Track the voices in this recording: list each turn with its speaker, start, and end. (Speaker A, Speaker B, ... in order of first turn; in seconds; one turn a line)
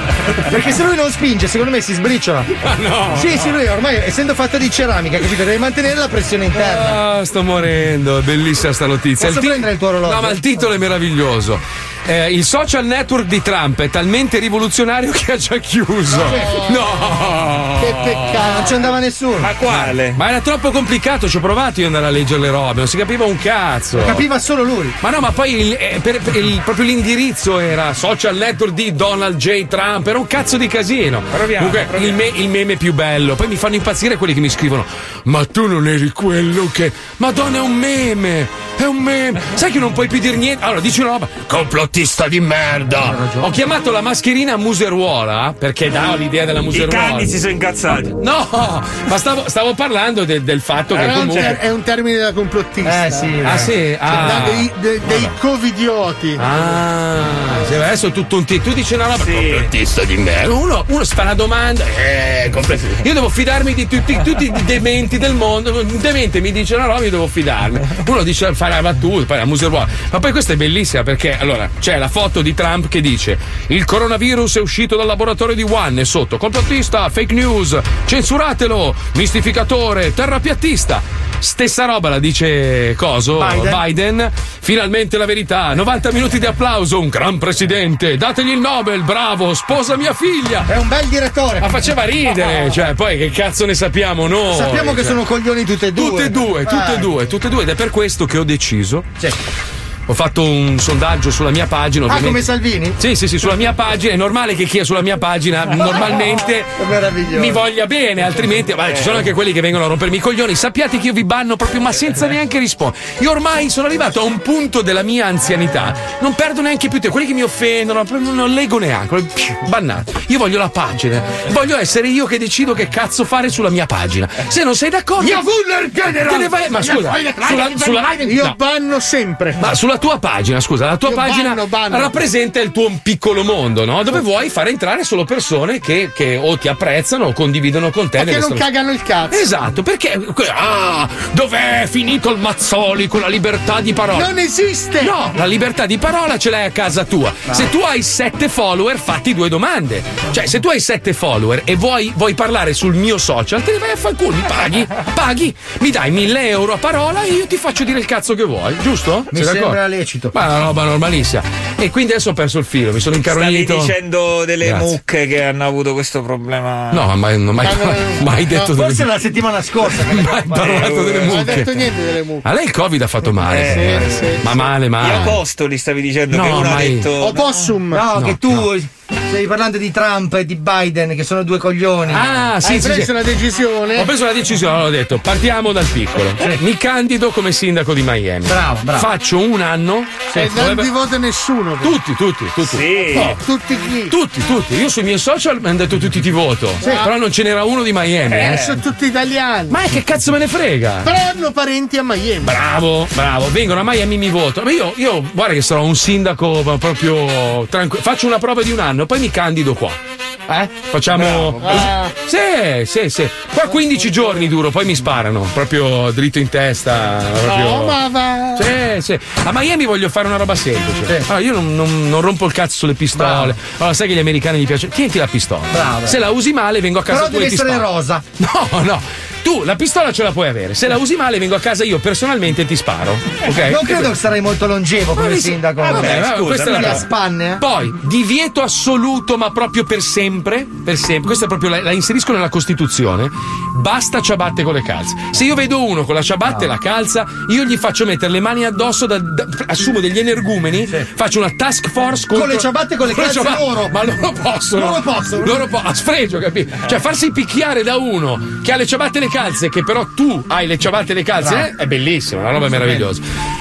Speaker A: 0.4-2.5
Speaker B: 2.6-3.6
Speaker A: 3.1-7.0
Speaker B: 6.5-18.6
Speaker A: 9.2-10.5
Speaker A: 16.2-16.7
Speaker C: 16.2-16.8
Speaker C: 17.8-18.6
Speaker A: 18.3-19.5
Speaker D: 19.4-20.2
Speaker B: 19.6-24.2
Speaker A: 23.9-24.9
Speaker B: 25.0-47.4
Speaker D: 31.4-32.1
Speaker A: 43.0-43.6
Speaker D: 46.7-48.1
Speaker B: 47.9-51.6
Speaker C: 50.9-53.3
Speaker D: 51.2-51.6
Speaker A: 52.8-53.7
Speaker B: 53.4-55.3
Speaker C: 54.1-56.4
Speaker B: 56.4-90.7
Speaker D: 59.2-59.7
Speaker A: 83.3-83.8
Speaker A: 90.7-91.8
Speaker B: 91.6-95.2
Speaker A: 94.5-97.1
Speaker B: 96.0-99.1
Speaker B: 100.1-106.8
Speaker A: 102.1-103.0
Speaker A: 106.8-107.6
Speaker B: 107.3-125.5
Speaker D: 108.8-109.3
Speaker C: 125.2-129.7
Speaker B: 126.2-128.5
Speaker B: 129.6-138.7
Speaker C: 131.1-132.2
Speaker C: 138.2-139.4
Speaker B: 139.3-144.3
Speaker C: 144.1-145.2
Speaker B: 145.0-159.8
Speaker A: 159.3-160.3
Speaker B: 160.3-164.0
Speaker D: 163.2-167.1
Speaker B: 164.6-164.9
Speaker B: 166.9-169.2
Speaker C: 167.6-168.7
Speaker A: 168.7-170.9
Speaker B: 169.8-171.9
Speaker D: 170.6-171.4
Speaker C: 171.2-172.5
Speaker B: 172.4-175.4
Speaker D: 173.4-177.8
Speaker C: 173.6-174.6
Speaker B: 176.3-177.1
Speaker C: 177.2-178.1
Speaker A: 177.9-182.3
Speaker B: 178.1-178.7
Speaker B: 182.1-183.1
Speaker C: 182.6-184.1
Speaker B: 183.9-190.9
Speaker A: 188.4-189.1
Speaker C: 190.3-191.9
Speaker B: 191.8-193.4
Speaker D: 192.6-193.3
Speaker C: 193.1-194.1
Speaker B: 194.1-198.7
Speaker C: 196.8-197.1
Speaker C: 198.3-199.8
Speaker B: 199.7-201.1
Speaker C: 201.0-202.6
Speaker B: 202.4-218.0
Speaker C: 211.2-212.1
Speaker C: 213.8-214.4
Speaker C: 217.4-218.7
Speaker B: 218.5-234.1
Speaker A: 223.1-223.5
Speaker A: 225.7-226.2
Speaker A: 227.1-228.2
Speaker A: 233.5-237.6
Speaker B: 235.1-263.2
Speaker D: 235.8-236.9
Speaker A: 246.4-246.7
Speaker A: 252.3-254.0
Speaker A: 254.7-255.6
Speaker A: 261.4-261.7
Speaker A: 262.7-263.1